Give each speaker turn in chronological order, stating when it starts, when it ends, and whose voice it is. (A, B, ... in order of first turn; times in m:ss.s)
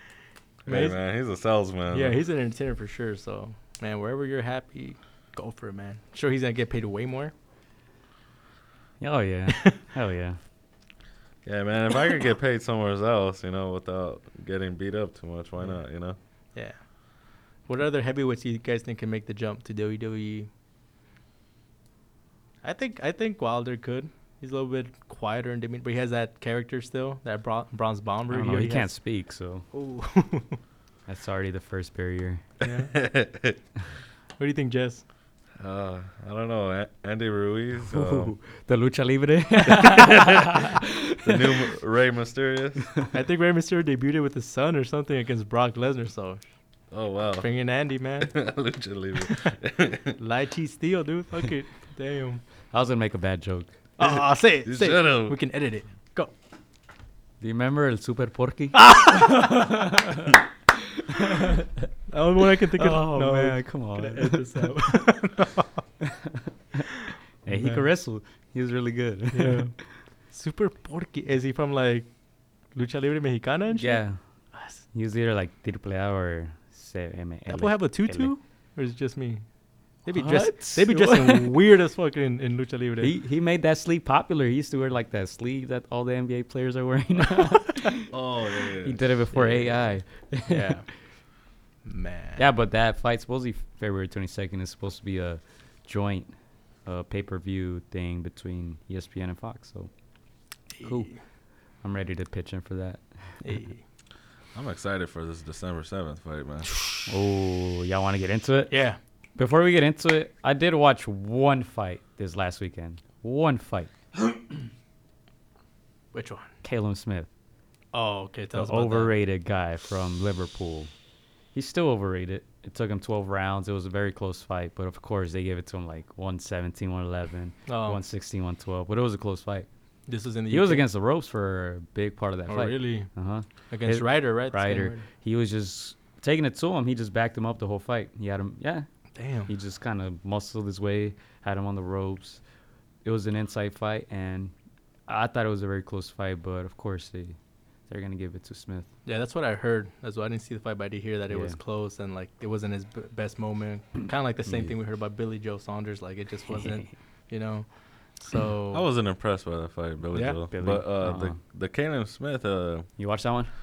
0:00.6-0:02.2 A
0:00.7-0:01.0 B
0:01.9-0:07.3 B
0:09.0-0:10.4 C
0:11.4-0:16.2 A
0:16.5-0:16.8 B
0:17.6-0:20.5 B
0:22.6-0:28.9 B
0:28.3-0:29.6 C
0:29.7-0:30.6 B
0:31.1-0:32.4 C
0:32.6-0:33.0 B
0:32.6-0:33.6 A
0:34.4-0:35.0 B
0:35.6-0:38.4 A
0:37.9-0:41.4 C
0:39.8-0:40.6 A
0:41.2-0:42.9 A
0:43.1-0:46.4 B
0:46.9-0:47.5 A
0:47.4-0:48.4 B
0:48.2-0:50.2 A
0:50.2-0:52.4 B
0:52.7-0:53.7 C
0:54.0-0:56.3 B
0:54.0-0:55.4 A
0:57.4-1:00.4 C
0:58.8-0:59.5 B
1:01.1-1:01.6 C
1:02.1-1:05.7 B
1:02.8-1:04.7 C
1:07.4-1:09.9 C
1:07.5-1:07.8 B
1:09.3-1:12.1 B
1:12.7-1:14.8 B
1:13.7-1:14.2 C
1:14.9-1:18.3 C
1:17.5-1:19.4 B
1:20.0-1:23.1 B
1:20.1-1:21.5 C
1:23.0-1:28.1 C
1:28.1-1:29.0 A
1:28.8-1:30.8 C
1:29.3-1:29.8 B
1:30.5-1:30.8 B
1:31.8-1:32.4 B
1:32.4-1:36.3 C
1:36.8-1:39.9 C
1:40.7-1:41.2 B
1:40.8-1:41.1 C
1:41.8-1:43.4 C
1:43.4-1:43.8 B
1:44.5-1:46.7 A
1:47.1-1:48.7 C
1:48.7-1:49.0 B
1:49.4-1:53.9 C
1:56.1-1:56.5 B
1:56.6-1:57.3 C
1:57.9-1:59.1 B
1:58.5-2:00.9 C
2:01.5-2:09.7 C
2:07.7-2:08.0 B
2:10.1-2:10.8 B
2:10.5-2:18.9 C
2:12.5-2:13.1 B
2:13.7-2:15.0 B
2:19.2-2:19.5 B
2:19.5-2:22.4 C
2:23.0-2:24.5 C
2:25.1-2:27.4 C
2:27.9-2:28.9 C
2:29.0-2:38.8 B
2:31.3-2:31.6 C
2:34.4-2:34.7 C
2:36.5-2:36.9 C
2:38.7-2:42.9 A
2:40.1-2:40.4 B
2:40.5-2:41.4 C
2:43.0-2:43.5 C